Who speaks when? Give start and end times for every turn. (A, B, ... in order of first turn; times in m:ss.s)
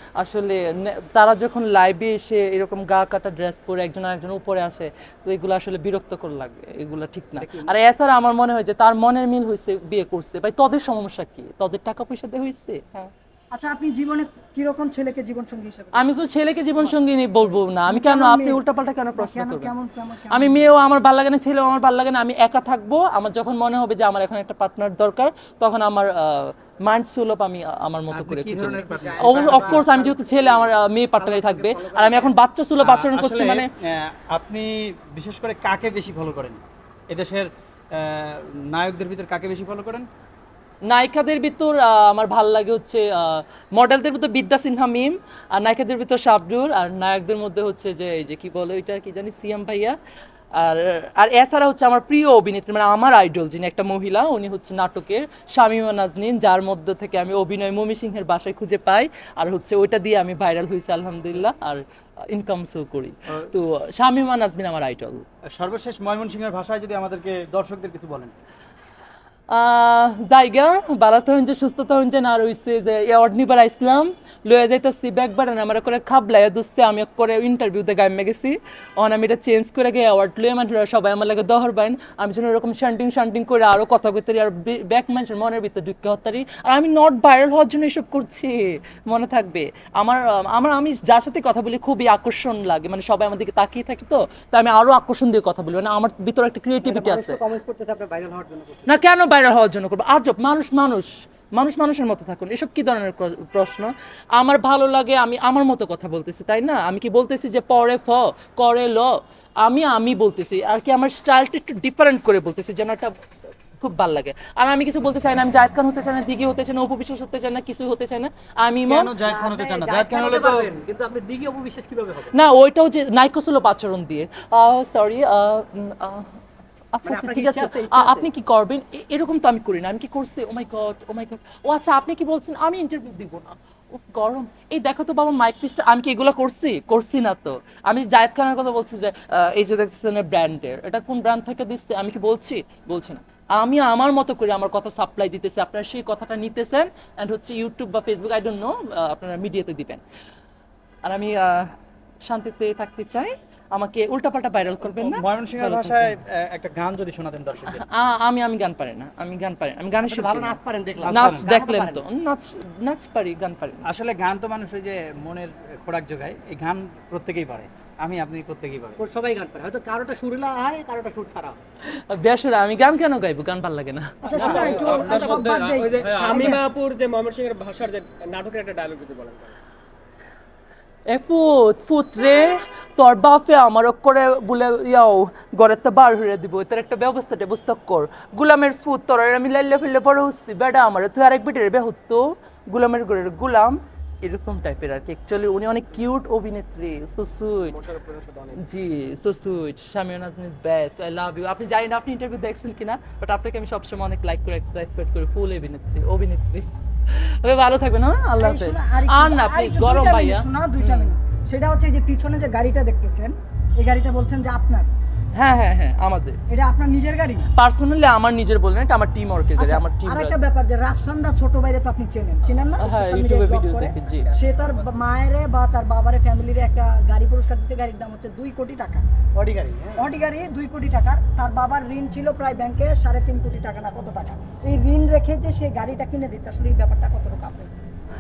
0:00.2-0:13.1 A
0:07.4-0:07.8 B
0:13.5-0:16.1 C
0:15.9-0:19.7 A
0:16.8-0:18.6 C
0:19.2-0:20.7 C
0:20.3-0:33.7 A
0:28.1-0:29.8 B
0:28.9-0:30.7 C
0:31.3-0:32.3 C
0:32.8-0:40.1 B
0:40.9-0:50.0 A
0:50.6-1:05.2 A
1:03.3-1:03.6 B
1:05.5-1:08.4 B
1:09.5-1:37.4 A
1:36.8-1:39.0 D
1:38.9-1:53.2 A
1:53.8-1:59.1 A
1:58.9-2:00.8 B
1:59.2-2:02.3 D
2:02.3-2:06.4 A
2:06.9-2:30.0 A
2:07.0-2:08.3 D
2:31.0-2:36.2 A
2:34.8-2:37.8 B
2:37.7-2:43.9 A
2:40.1-2:42.0 D
2:41.0-2:41.5 B
2:43.8-2:49.0 B
2:49.0-2:51.6 D
2:51.9-2:55.1 A
2:54.2-2:56.6 C
2:54.3-2:54.9 B
2:54.4-2:54.9 D
2:54.4-2:59.5 E
3:01.1-3:17.8 A
3:17.7-3:18.6 E
3:18.6-3:31.2 A
3:28.3-3:34.9 C
3:35.4-3:36.4 A
3:36.5-3:37.5 C
3:37.6-3:40.4 A
3:39.6-3:49.0 C
3:42.8-3:44.3 A
3:44.1-3:45.0 B
3:49.4-3:50.1 B
3:50.0-3:57.7 C